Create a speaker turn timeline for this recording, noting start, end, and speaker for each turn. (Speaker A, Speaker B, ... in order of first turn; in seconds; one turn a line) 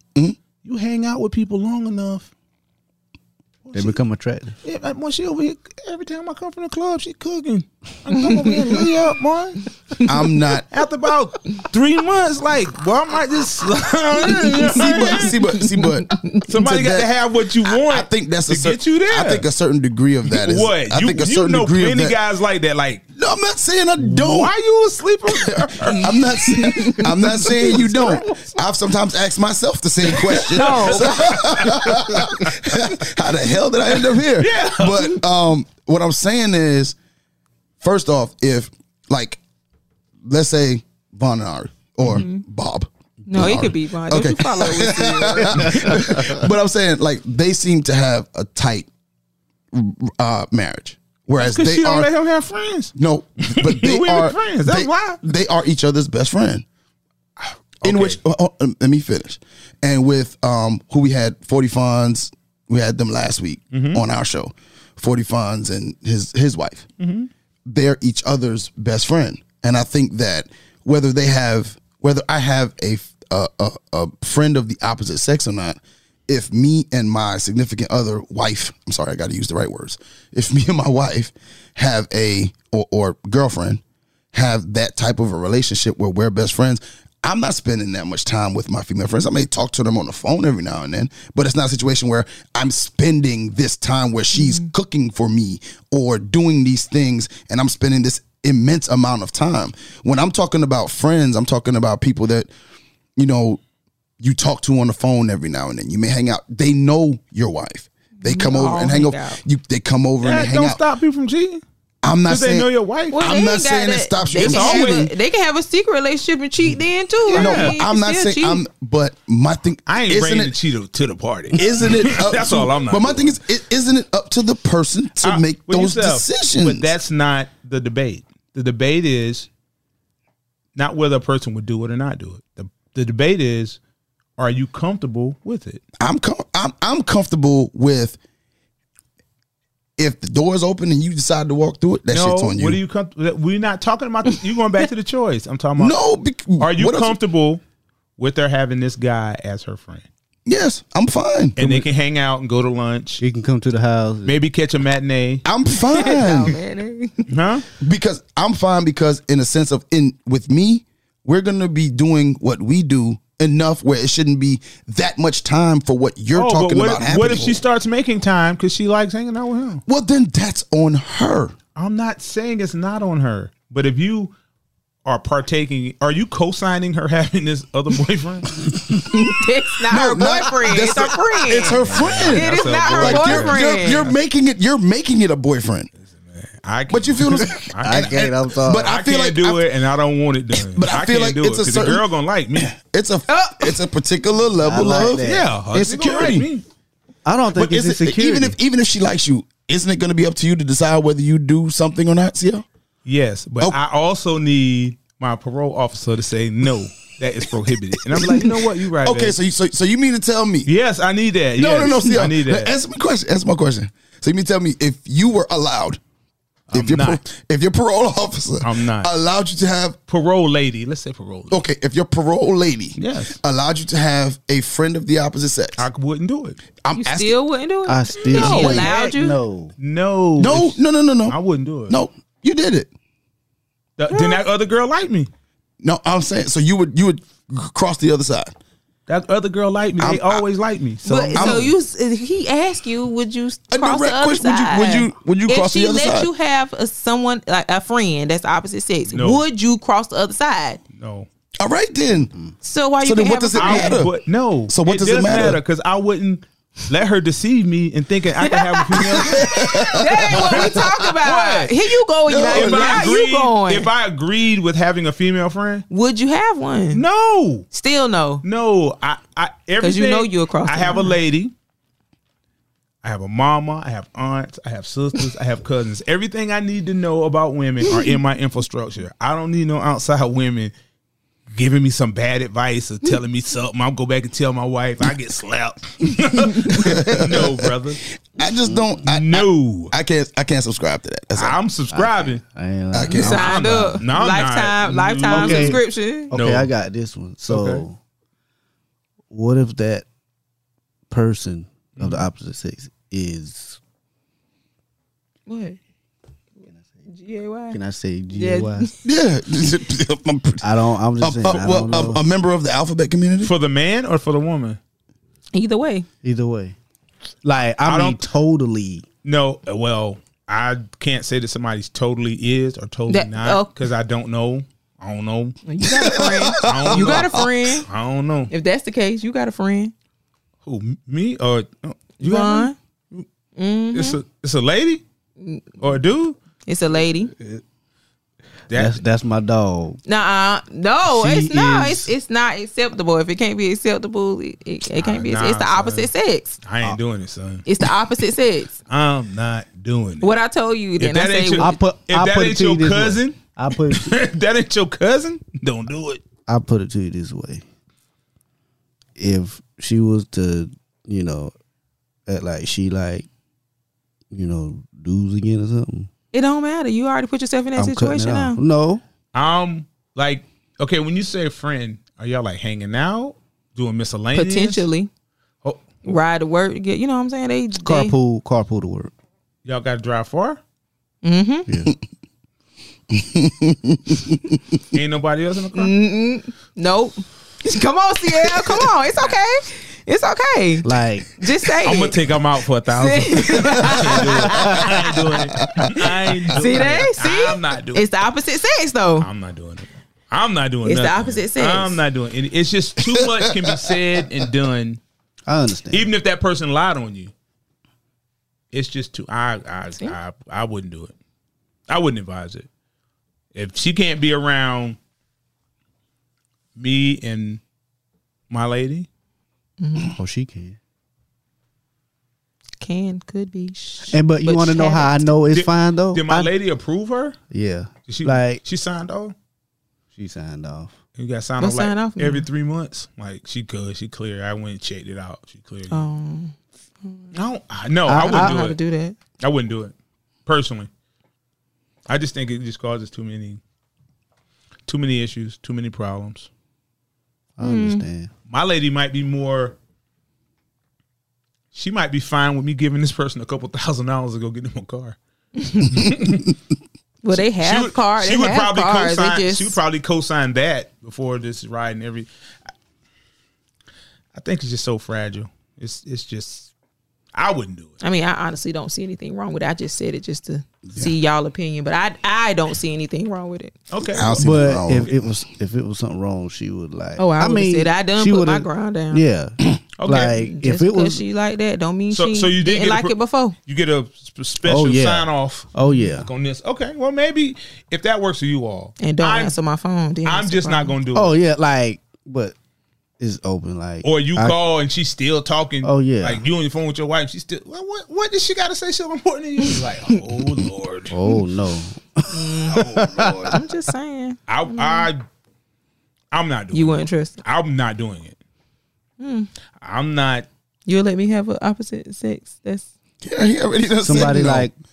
Speaker A: 0.6-2.3
Speaker A: 3.6-4.0
Speaker B: 3.7-4.6
Speaker A: 4.6-9.7
Speaker C: 10.0-10.7
Speaker A: 10.7-15.4
Speaker D: 14.4-16.4
Speaker C: 14.6-17.1
Speaker A: 16.4-19.4
Speaker C: 17.7-22.2
Speaker A: 20.3-23.0
Speaker C: 23.1-24.5
Speaker A: 24.0-26.1
Speaker C: 25.4-36.9
Speaker D: 25.9-27.1
Speaker A: 26.7-28.5
Speaker A: 30.2-32.5
Speaker D: 30.5-31.3
Speaker A: 34.0-35.2
Speaker C: 37.8-39.4
Speaker C: 40.2-48.9
Speaker D: 42.0-42.4
Speaker D: 43.3-45.7
Speaker B: 45.5-46.1
Speaker C: 49.7-52.1
Speaker A: 51.4-52.9
Speaker C: 53.0-56.6
Speaker A: 53.5-55.2
Speaker A: 57.8-58.2
Speaker C: 57.8-66.9
Speaker A: 63.7-64.0
Speaker A: 67.0-67.3
Speaker C: 67.7-83.8
Speaker C: 84.3-102.5
Speaker D: 94.3-94.7
Speaker C: 103.2-103.6
Speaker C: 104.2-110.8
Speaker D: 108.2-109.4
Speaker A: 110.2-111.6
Speaker C: 112.0-115.1
Speaker A: 112.3-113.2
Speaker D: 113.1-118.6
Speaker A: 114.3-115.1
Speaker A: 117.3-117.8
Speaker C: 117.3-120.5
Speaker A: 119.9-123.4
Speaker C: 121.5-126.8
Speaker A: 125.2-129.5
Speaker A: 130.8-133.8
Speaker A: 134.4-135.8
Speaker C: 136.0-138.2
Speaker C: 140.0-142.8
Speaker A: 142.1-146.0
Speaker C: 145.8-147.2
Speaker A: 146.6-147.6
Speaker A: 148.2-150.1
Speaker C: 150.4-151.6
Speaker A: 151.6-153.2
Speaker B: 153.2-154.4
Speaker A: 154.2-155.4
Speaker C: 155.4-156.5
Speaker D: 155.9-157.3
Speaker A: 157.3-157.7
Speaker C: 157.8-167.6
Speaker A: 166.3-169.8
Speaker C: 169.9-171.5
Speaker A: 171.8-174.3
Speaker A: 175.0-178.6
Speaker D: 179.1-184.1
Speaker C: 179.9-185.9
Speaker A: 181.6-184.1
Speaker A: 186.1-188.2
Speaker C: 186.9-189.6
Speaker B: 187.8-189.0
Speaker A: 188.8-192.7
Speaker C: 190.6-192.1
Speaker C: 192.6-196.5
Speaker D: 193.3-193.8
Speaker B: 194.6-195.5
Speaker A: 195.2-196.6
Speaker B: 197.2-198.6
Speaker C: 197.5-202.6
Speaker A: 203.0-209.3
Speaker C: 208.1-210.7
Speaker A: 210.7-212.7
Speaker C: 211.6-216.0
Speaker A: 216.7-217.2
Speaker C: 216.7-220.0
Speaker A: 218.6-219.1
Speaker A: 220.1-221.6
Speaker C: 221.5-225.8
Speaker A: 223.0-223.4
Speaker A: 225.8-226.6
Speaker C: 226.8-227.3
Speaker D: 226.9-229.4
Speaker B: 227.9-229.7
Speaker A: 228.3-228.9
Speaker C: 228.4-228.8
Speaker A: 229.8-231.9
Speaker C: 230.4-231.3
Speaker C: 231.9-232.9
Speaker A: 234.0-235.3
Speaker D: 234.1-234.4
Speaker C: 235.8-238.5
Speaker A: 239.1-241.7
Speaker C: 240.0-240.4
Speaker D: 241.1-250.8
Speaker C: 241.3-241.7
Speaker C: 243.7-246.3
Speaker A: 249.1-249.4
Speaker A: 250.9-251.3
Speaker C: 251.6-252.3
Speaker D: 252.6-254.0
Speaker C: 253.0-254.1
Speaker A: 253.6-261.9
Speaker C: 254.7-255.6
Speaker D: 258.4-263.9
Speaker C: 259.1-260.9
Speaker C: 262.3-263.2
Speaker A: 262.5-265.9
Speaker D: 265.9-267.0
Speaker A: 266.9-267.7
Speaker D: 267.7-268.4
Speaker A: 268.4-271.5
Speaker D: 269.8-271.1
Speaker A: 273.0-280.7
Speaker A: 281.5-288.0
Speaker C: 286.7-287.5
Speaker C: 288.4-291.6
Speaker B: 288.6-289.0
Speaker A: 289.0-289.9
Speaker A: 291.3-292.4
Speaker B: 291.9-293.5
Speaker C: 292.9-293.6
Speaker D: 293.1-296.3
Speaker A: 293.1-295.8
Speaker B: 295.3-295.8
Speaker B: 296.3-298.0
Speaker A: 296.3-296.7
Speaker A: 297.5-297.8
Speaker B: 299.3-300.1
Speaker B: 301.1-303.8
Speaker A: 302.0-302.2
Speaker D: 305.5-305.8
Speaker D: 307.1-307.8
Speaker B: 307.7-308.9
Speaker D: 308.3-308.9
Speaker C: 309.0-310.6
Speaker B: 310.6-312.2
Speaker C: 311.2-313.5
Speaker A: 313.4-314.8
Speaker D: 315.5-316.1
Speaker B: 316.2-316.8
Speaker B: 317.4-319.1
Speaker A: 317.8-318.2
Speaker A: 319.2-325.6
Speaker D: 323.1-323.7
Speaker D: 325.6-327.9
Speaker C: 325.8-327.5
Speaker A: 326.6-328.5
Speaker D: 328.5-329.9
Speaker A: 330.6-333.2
Speaker D: 332.2-332.7
Speaker D: 333.6-334.2
Speaker A: 333.9-335.0
Speaker D: 335.4-335.8
Speaker A: 335.8-336.4
Speaker D: 336.6-337.3
Speaker A: 338.7-339.0
Speaker B: 338.7-340.0
Speaker D: 340.0-346.6
Speaker B: 341.1-342.1
Speaker A: 344.9-346.1
Speaker A: 346.6-347.6
Speaker D: 347.6-348.8
Speaker A: 348.9-350.4
Speaker D: 350.2-351.7
Speaker A: 351.0-353.4
Speaker B: 351.6-354.1
Speaker A: 353.9-356.2
Speaker B: 356.5-357.6
Speaker B: 359.2-361.5
Speaker B: 362.2-363.3
Speaker B: 364.3-366.1
Speaker D: 366.3-368.6
Speaker B: 367.8-369.0
Speaker A: 369.3-374.9
Speaker D: 374.3-375.1
Speaker A: 375.6-376.0
Speaker D: 376.0-378.1
Speaker B: 377.8-379.1
Speaker A: 379.6-380.6
Speaker D: 381.2-381.7
Speaker C: 383.1-384.4
Speaker A: 384.9-385.9
Speaker D: 385.7-392.2
Speaker B: 390.8-391.3
Speaker A: 391.8-398.0
Speaker D: 393.0-395.0
Speaker D: 396.5-399.3
Speaker A: 399.2-405.0
Speaker D: 400.8-402.0
Speaker B: 405.4-406.1
Speaker A: 405.9-407.3
Speaker A: 408.7-411.1
Speaker A: 411.9-412.7
Speaker A: 413.5-415.0
Speaker A: 416.8-417.6
Speaker A: 418.5-419.1
Speaker D: 419.8-420.1
Speaker B: 420.1-420.8
Speaker D: 422.8-425.3
Speaker B: 424.1-426.5
Speaker A: 425.5-427.4
Speaker B: 427.5-428.6
Speaker A: 428.1-429.3
Speaker B: 430.1-430.9
Speaker A: 431.2-436.1
Speaker D: 431.6-432.5
Speaker D: 435.9-437.3
Speaker A: 437.3-438.8
Speaker B: 438.1-438.6
Speaker D: 438.1-439.1
Speaker A: 439.4-439.9
Speaker A: 440.4-440.9
Speaker A: 442.1-443.6
Speaker A: 444.9-446.5
Speaker B: 447.6-448.3
Speaker D: 447.6-448.0
Speaker A: 448.5-449.8
Speaker A: 451.7-455.2
Speaker D: 455.6-456.1
Speaker A: 455.9-456.4
Speaker D: 457.2-459.8
Speaker A: 457.4-462.3
Speaker A: 464.3-466.7
Speaker A: 467.3-468.0
Speaker D: 468.0-473.8
Speaker A: 473.9-474.6
Speaker C: 474.1-475.2
Speaker B: 474.4-481.2
Speaker D: 477.2-479.2
Speaker A: 480.0-480.4
Speaker D: 480.1-483.6
Speaker A: 482.1-489.6
Speaker B: 484.6-486.3
Speaker D: 489.0-490.9
Speaker A: 490.2-491.3
Speaker B: 491.1-492.6
Speaker B: 493.2-494.6
Speaker A: 494.0-501.2
Speaker B: 495.8-496.4
Speaker B: 501.1-503.5
Speaker D: 502.3-502.9
Speaker A: 503.0-503.3
Speaker D: 503.4-505.1
Speaker A: 504.5-505.2
Speaker A: 506.3-508.4
Speaker D: 506.7-507.4
Speaker D: 509.2-509.5
Speaker A: 509.8-510.5
Speaker D: 510.9-512.9
Speaker C: 513.2-514.7
Speaker B: 514.0-514.7